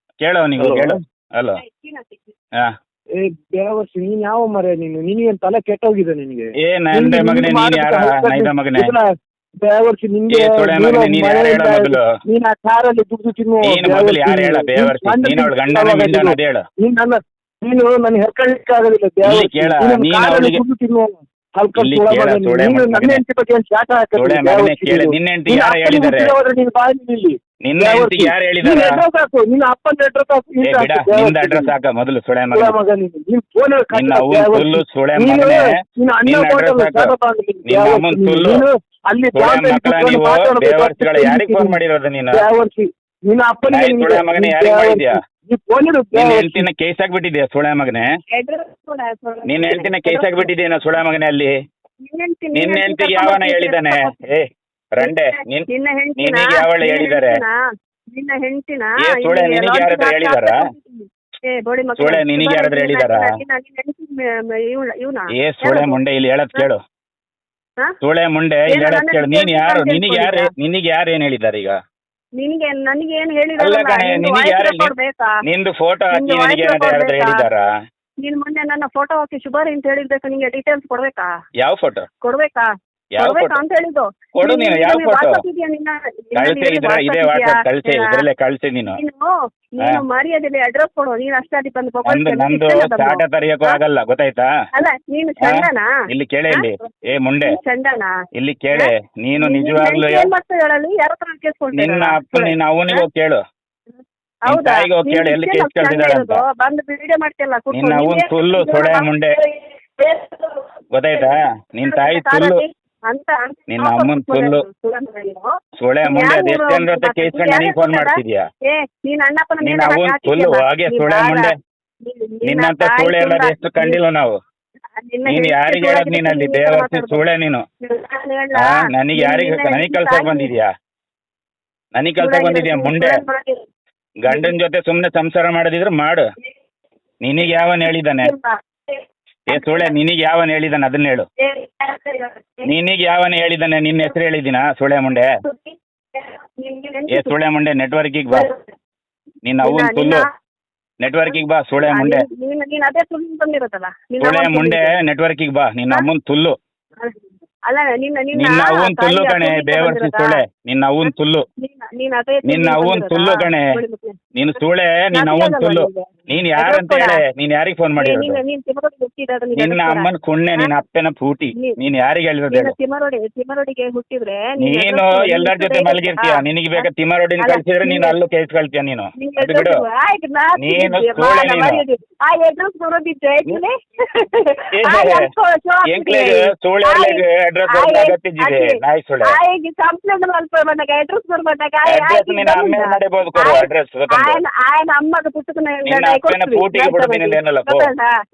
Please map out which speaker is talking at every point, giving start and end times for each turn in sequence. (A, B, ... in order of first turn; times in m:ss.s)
0:00.2-0:01.6 A
0:00.7-0:01.0 B
0:01.6-0:02.3 C
0:03.2-0:31.7 B
0:06.6-0:08.9 A
0:10.3-0:12.1 A
0:13.6-0:16.6 A
0:19.2-0:20.6 A
0:21.7-0:23.2 A
0:24.2-0:26.4 A
0:27.6-0:29.0 A
0:30.6-0:32.8 A
0:32.5-0:41.8 B
0:33.9-0:38.6 A
0:39.3-0:42.5 A
0:42.3-0:46.7 B
0:43.7-0:45.2 A
0:46.1-0:48.0 A
0:48.3-0:50.5 C
0:49.5-0:51.5 A
0:52.0-0:54.2 C
0:52.5-0:57.4 A
0:55.0-0:57.5 C
0:58.1-1:06.0 C
0:59.0-1:00.6 A
1:02.0-1:03.4 A
1:05.4-1:06.8 A
1:08.0-1:11.8 A
1:08.7-1:10.5 C
1:12.4-1:15.4 C
1:13.6-1:14.9 A
1:15.4-1:17.7 A
1:16.1-1:17.5 C
1:18.2-1:21.3 C
1:21.6-1:22.1 A
1:22.2-1:22.7 C
1:23.1-1:23.6 A
1:23.2-1:28.2 C
1:24.4-1:25.4 A
1:26.4-1:29.0 A
1:28.9-1:33.8 C
1:32.1-1:34.5 A
1:34.8-1:35.9 C
1:35.4-1:37.6 A
1:37.4-1:38.1 C
1:38.4-1:40.3 A
1:38.7-1:43.1 C
1:41.7-1:43.4 A
1:44.5-1:50.7 C
1:44.5-1:46.4 A
1:47.7-1:49.4 A
1:50.9-1:52.6 A
1:51.8-1:55.5 C
1:53.7-1:54.6 A
1:55.8-1:58.5 A
1:56.0-2:01.5 C
1:59.6-2:01.6 A
2:02.0-2:04.0 C
2:02.4-2:04.4 A
2:05.0-2:07.2 C
2:05.3-2:07.7 A
2:07.8-2:10.5 C
2:08.6-2:10.7 A
2:12.0-2:13.2 A
2:12.2-2:13.6 C
2:14.2-2:16.2 A
2:14.3-2:14.6 C
2:17.2-2:18.3 A
2:18.2-2:20.0 C
2:19.5-2:21.3 A
2:21.4-2:22.7 C
2:22.6-2:25.3 A
2:25.4-2:27.4 C
2:27.1-2:28.5 A
2:28.3-2:28.7 C
2:29.4-2:30.3 A
2:29.6-2:30.3 C
2:31.0-2:32.2 A
2:31.9-2:34.9 C
2:34.2-2:36.6 A
2:37.0-2:40.4 C
2:38.3-2:41.5 A
2:41.0-2:44.2 C
2:42.4-2:43.7 A
2:44.4-2:48.4 A
2:45.1-2:47.2 C
2:48.0-2:50.7 C
2:49.6-2:52.8 A
2:52.5-2:56.9 C
2:54.6-2:59.8 A
2:57.4-2:58.2 C
2:59.2-3:18.1 C
3:00.6-3:01.8 A
3:04.7-3:05.3 A
3:05.9-3:09.4 A
3:11.9-3:14.4 A
3:15.9-3:17.9 A